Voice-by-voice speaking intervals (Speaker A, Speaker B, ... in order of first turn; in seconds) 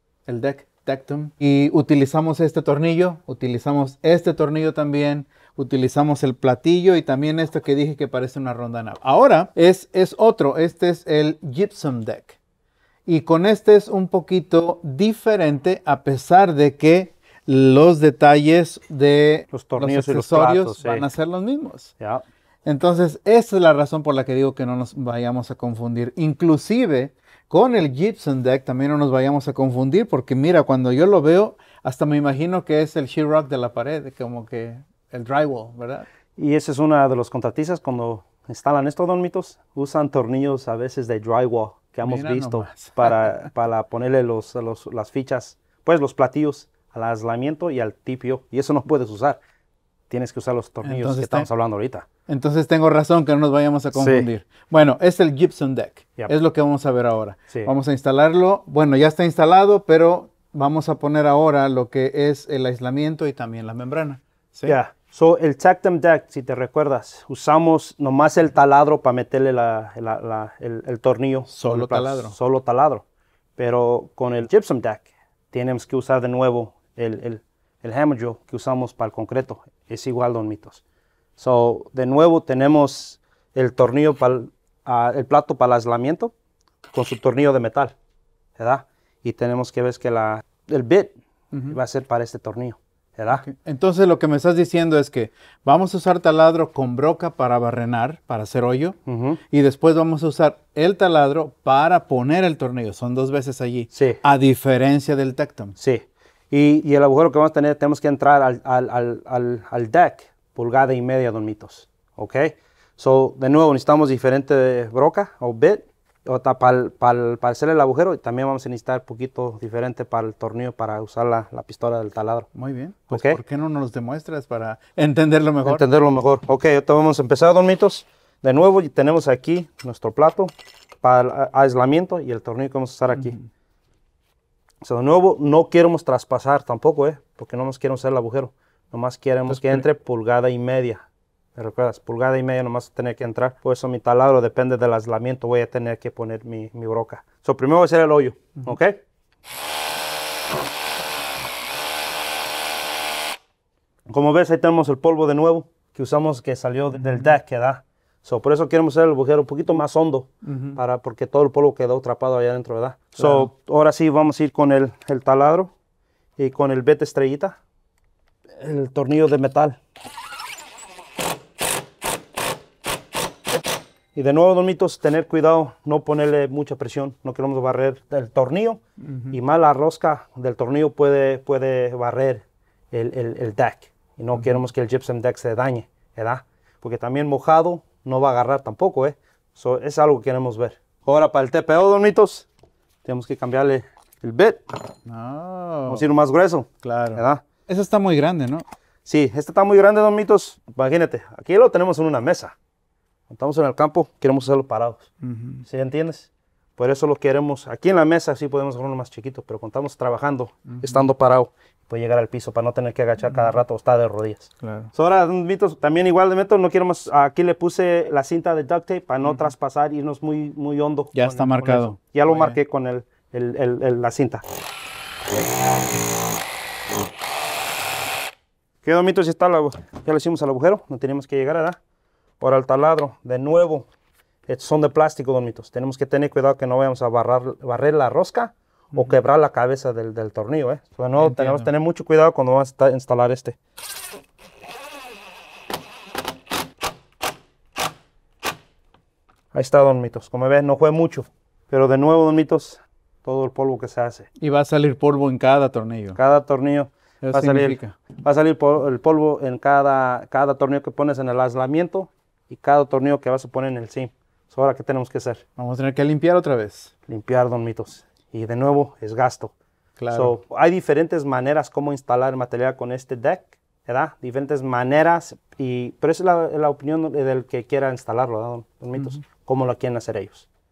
Speaker A: 0.3-12.4, 13.1-21.9, 22.7-36.1, 42.0-43.3, 50.8-51.5, 52.3-64.8, 71.5-72.3, 93.3-99.0, 99.5-105.8, 122.5-125.8, 133.1-133.5, 139.5-139.8, 160.5-160.8, 163.2-163.5, 184.3-184.6, 195.1-196.1, 196.8-198.7, 205.2-205.6, 210.7-211.1, 213.2-213.6, 214.6-214.9, 221.1-222.6, 241.2-241.7, 254.4-256.2, 257.2-258.0, 265.6-266.9, 270.0-270.4
Speaker B: 19.5-21.1, 36.4-49.4, 50.1-52.1, 53.9-54.3, 64.7-73.0, 73.6-80.8, 81.4-86.3, 86.9-87.9, 88.6-93.5, 99.1-99.4, 103.9-104.2, 105.8-122.5, 123.1-123.4, 125.6-133.4, 134.8-149.0, 154.1-165.7, 166.4-167.6, 168.6-169.8, 174.2-192.5, 193.1-194.6, 195.9-197.4, 199.1-202.6, 203.3-205.1, 205.7-224.4, 228.8-231.8, 232.4-233.9, 234.5-243.6, 249.5-254.3, 256.2-265.4, 267.1-269.6, 270.1-280.5